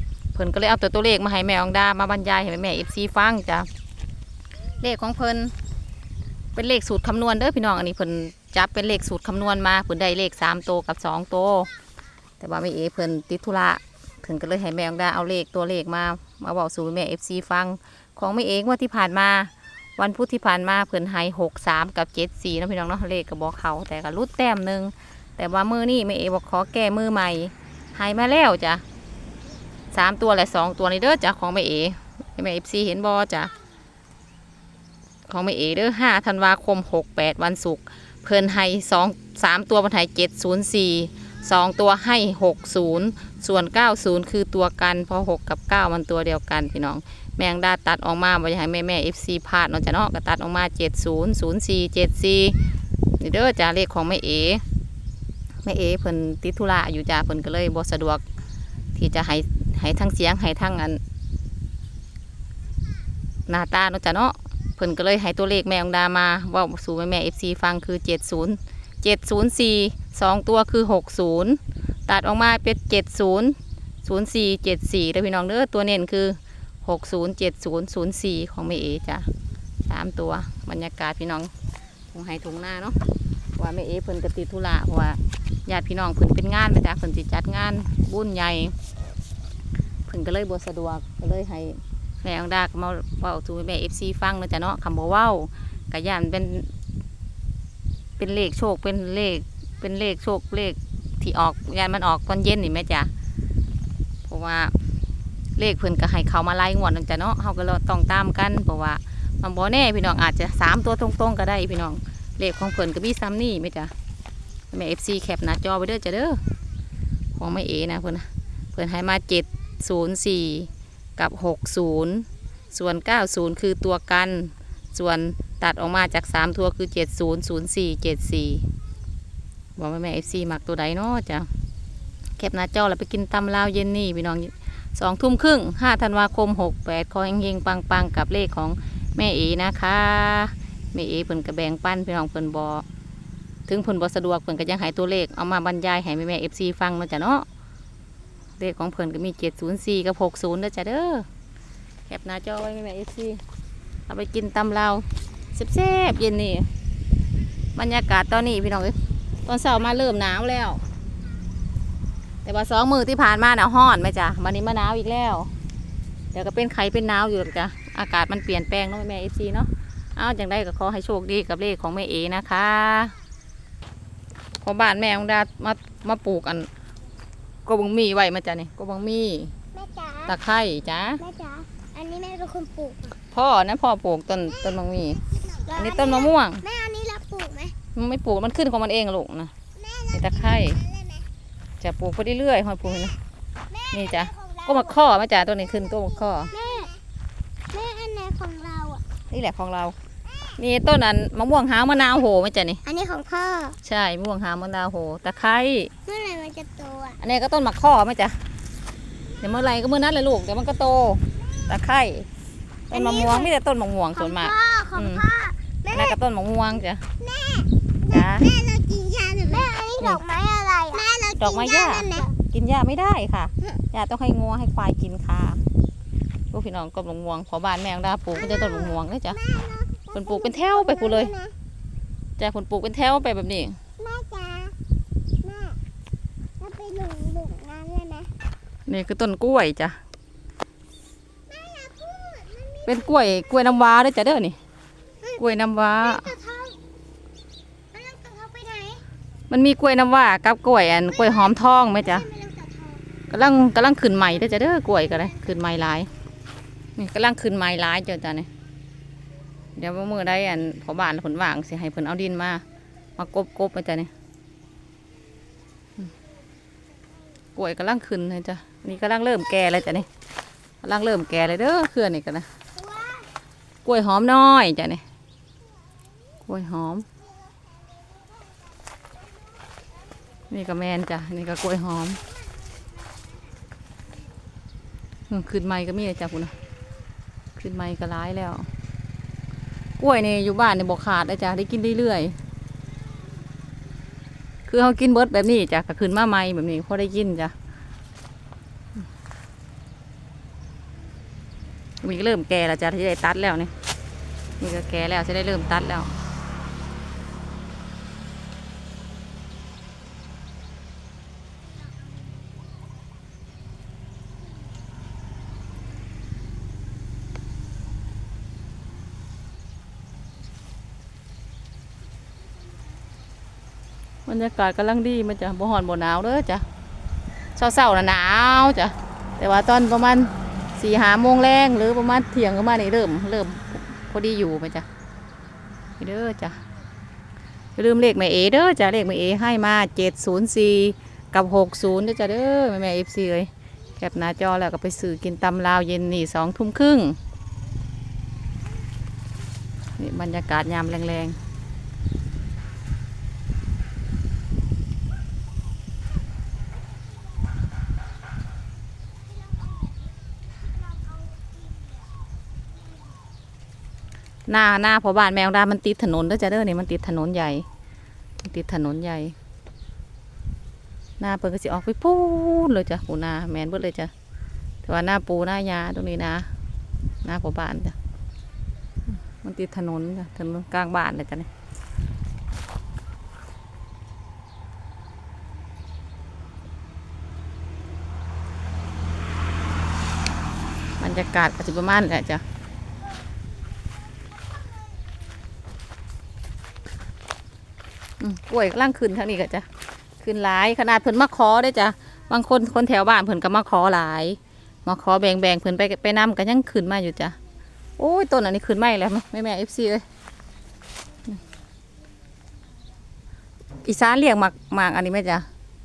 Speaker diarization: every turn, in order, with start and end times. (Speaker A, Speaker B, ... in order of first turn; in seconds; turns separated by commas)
Speaker A: 0.3-3.7, Speaker A: 4.8-5.5, Speaker A: 6.5-11.7, Speaker A: 12.4-28.8, Speaker A: 29.9-33.5, Speaker A: 35.3-52.5, Speaker A: 53.2-54.6, Speaker A: 55.6-58.2, Speaker A: 58.9-61.0, Speaker A: 63.5-79.3, Speaker A: 79.8-81.5, Speaker A: 82.1-83.0, Speaker A: 83.6-88.7, Speaker A: 90.1-96.7, Speaker A: 98.2-103.1, Speaker A: 104.2-104.7, Speaker A: 105.6-113.9, Speaker A: 114.7-116.4, Speaker A: 117.3-128.7, Speaker A: 129.8-131.5, Speaker A: 132.4-142.8, Speaker A: 143.7-147.4, Speaker A: 148.6-151.3, Speaker A: 152.1-153.4, Speaker A: 154.1-156.7, Speaker A: 157.8-160.8, Speaker A: 162.4-165.5, Speaker A: 166.3-173.1, Speaker A: 174.6-176.7, Speaker A: 177.7-179.5, Speaker B: 179.7-180.3, Speaker A: 180.2-181.2, Speaker B: 181.2-183.1, Speaker A: 183.3-185.2, Speaker B: 185.5-187.7, Speaker A: 185.7-186.6, Speaker A: 187.9-189.5, Speaker B: 189.8-191.2, Speaker A: 190.1-190.8, Speaker A: 191.8-193.1, Speaker B: 193.7-194.7, Speaker A: 193.9-196.5, Speaker B: 196.5-197.0, Speaker B: 197.7-199.0, Speaker A: 199.3-199.9, Speaker A: 200.6-202.8, Speaker B: 202.8-203.8, Speaker A: 203.8-205.9, Speaker B: 206.1-207.2, Speaker A: 207.2-208.4, Speaker A: 209.4-212.3, Speaker A: 212.9-215.3, Speaker B: 212.9-213.5, Speaker B: 214.1-216.1, Speaker A: 215.9-217.0, Speaker B: 217.2-222.3, Speaker A: 218.1-218.5, Speaker A: 221.4-225.6, Speaker A: 226.5-229.4, Speaker B: 228.4-231.5, Speaker A: 230.1-231.3, Speaker A: 232.4-233.8, Speaker B: 234.0-234.8, Speaker B: 235.4-235.8, Speaker B: 236.6-238.3, Speaker A: 238.9-240.0, Speaker B: 241.5-243.3, Speaker A: 242.8-244.6, Speaker A: 245.4-246.3, Speaker B: 246.0-246.8, Speaker B: 247.9-249.0, Speaker A: 249.5-252.3, Speaker B: 251.2-253.0, Speaker A: 253.3-256.1, Speaker A: 256.9-258.5, Speaker A: 259.8-262.6, Speaker A: 263.2-264.1, Speaker A: 267.6-270.1, Speaker A: 270.8-272.5, Speaker B: 272.8-273.3, Speaker A: 273.8-275.0, Speaker A: 276.5-277.1, Speaker A: 280.5-282.2, Speaker A: 285.3-286.5, Speaker A: 287.6-288.7, Speaker A: 290.0-292.4, Speaker A: 294.6-297.5, Speaker A: 302.0-303.7, Speaker A: 304.6-306.1, Speaker A: 324.2-326.6, Speaker A: 327.6-334.9, Speaker A: 336.0-336.6, Speaker A: 337.8-347.2, Speaker A: 350.0-351.4, Speaker A: 364.5-367.6, Speaker A: 368.4-369.3, Speaker A: 371.2-374.1, Speaker A: 374.8-376.5, Speaker A: 377.2-377.9, Speaker A: 379.4-381.5, Speaker A: 391.0-392.4, Speaker A: 398.2-399.7, Speaker A: 400.2-407.4, Speaker A: 408.0-410.0, Speaker A: 413.8-415.4